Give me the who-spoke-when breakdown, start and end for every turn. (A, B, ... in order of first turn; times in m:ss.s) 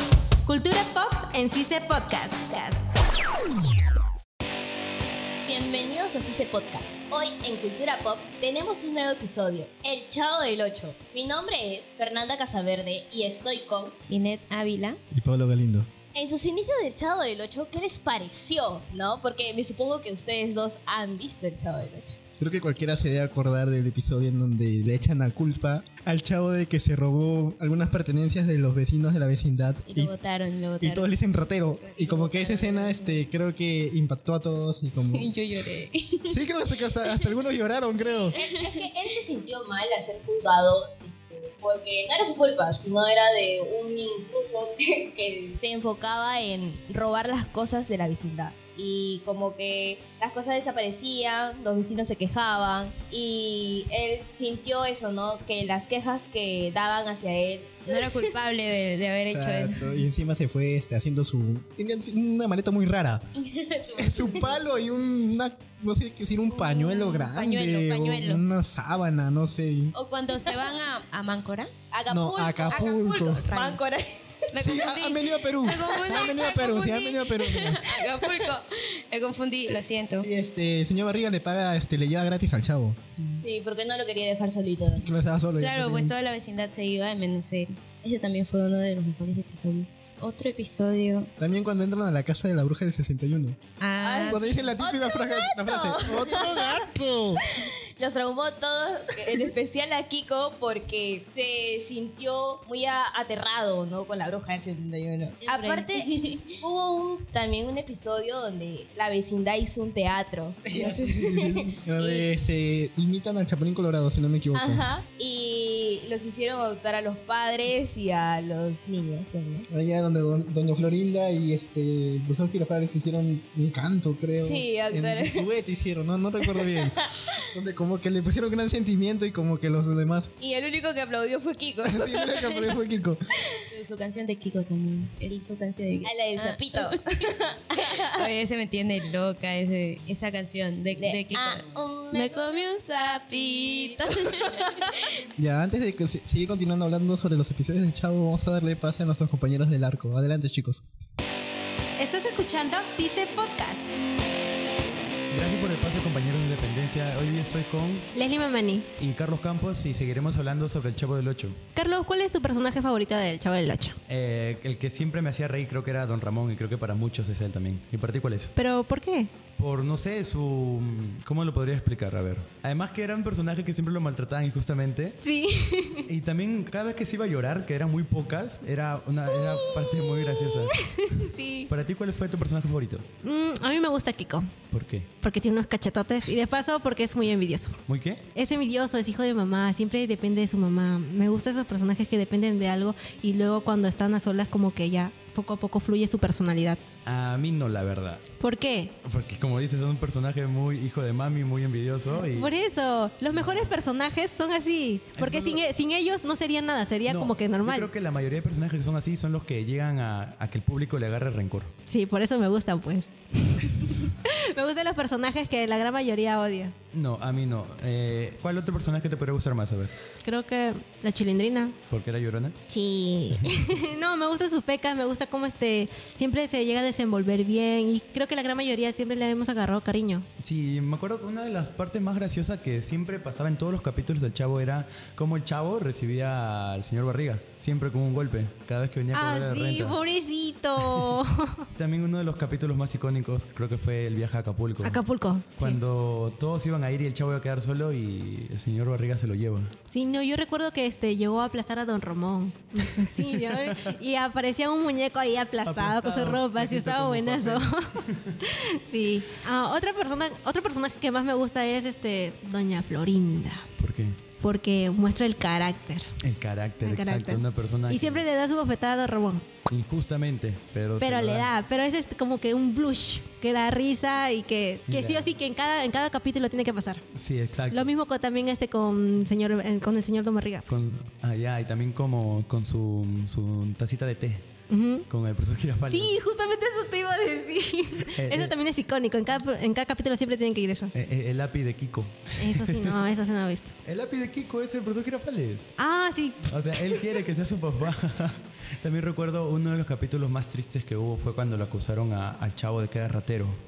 0:00.4-0:02.9 A
0:05.5-0:13.9 B
0:14.1-0:15.0 C
0:15.1-0:15.9 D
0:16.1-0:22.2 B
0:22.4-0:30.1 D
0:29.9-0:31.1 C
0:30.8-0:35.3 D
0:31.9-0:33.3 C
0:35.1-0:36.4 C
0:36.3-0:38.4 D
0:37.0-0:37.4 C
0:38.1-0:58.3 B
0:38.3-0:38.8 C
0:57.8-1:00.1 C
0:59.3-1:03.2 D
1:03.4-1:04.6 C
1:04.0-1:09.9 D
1:06.4-1:08.4 C
1:09.9-1:11.7 C
1:11.9-1:14.2 B
1:12.1-1:13.5 D
1:12.7-1:13.8 C
1:14.5-1:20.3 C
1:14.6-1:17.8 D
1:17.9-1:18.5 B
1:20.2-1:23.0 D
1:23.1-1:23.4 C
1:23.4-1:25.1 B
1:25.0-1:26.2 D
1:25.6-1:31.3 C
1:31.4-1:33.6 D
1:33.8-1:34.8 C
1:34.0-1:36.9 B
1:34.2-1:37.4 D
1:37.4-1:52.3 B
1:45.4-1:46.6 C
1:50.6-1:54.9 D
1:54.6-1:59.7 B
1:59.7-2:10.3 D
2:04.4-2:05.5 B
2:06.5-2:07.3 B
2:10.4-2:12.8 B
2:11.8-2:13.2 D
2:13.5-2:17.0 C
2:16.0-2:18.0 B
2:18.1-2:24.7 C
2:21.0-2:24.3 B
2:25.4-2:30.8 D
2:32.0-2:33.9 A
2:35.3-2:38.1 E
2:38.1-2:38.9 A
2:39.0-2:41.6 E
2:41.8-2:44.0 A
2:44.1-2:48.5 E
2:48.5-2:49.3 A
2:49.6-2:55.2 E
2:55.2-2:56.1 A
2:56.1-3:00.7 E
2:59.4-3:01.7 A
3:01.7-3:03.1 E
3:03.2-3:04.5 A
3:04.7-3:05.1 E
3:05.2-3:07.8 A
3:07.8-3:08.2 E
3:08.3-3:16.8 A
3:17.0-3:18.2 E
3:18.4-3:18.9 A
3:19.0-3:22.5 E
3:22.1-3:27.9 A
3:23.3-3:23.7 E
3:25.1-3:25.7 E
3:27.1-3:31.7 E
3:31.8-3:36.8 A
3:36.9-3:39.9 E
3:40.2-3:41.8 A
3:41.9-3:42.6 E
3:42.7-3:50.3 A
3:50.4-4:00.0 E
3:59.1-4:01.6 A
4:00.8-4:01.2 E
4:01.8-4:05.0 E
4:04.8-4:05.8 A
4:05.5-4:09.7 E
4:09.9-4:23.7 A
4:12.8-4:14.0 E
4:15.6-4:18.4 E
4:23.8-4:24.2 E
4:24.4-4:26.1 A
4:26.2-4:28.2 E
4:26.8-4:29.5 A
4:29.6-4:31.5 E
4:31.0-4:37.0 A
4:34.9-4:35.4 E
4:37.1-4:37.9 E
4:37.7-4:40.6 A
4:40.6-4:44.5 E
4:44.7-4:45.0 A
4:45.1-4:46.2 E
4:45.9-4:50.9 A
4:48.1-4:48.6 E
4:50.9-4:52.9 E
4:52.4-4:53.7 A
4:53.8-4:55.7 E
4:55.8-4:56.5 A
4:56.5-5:03.6 E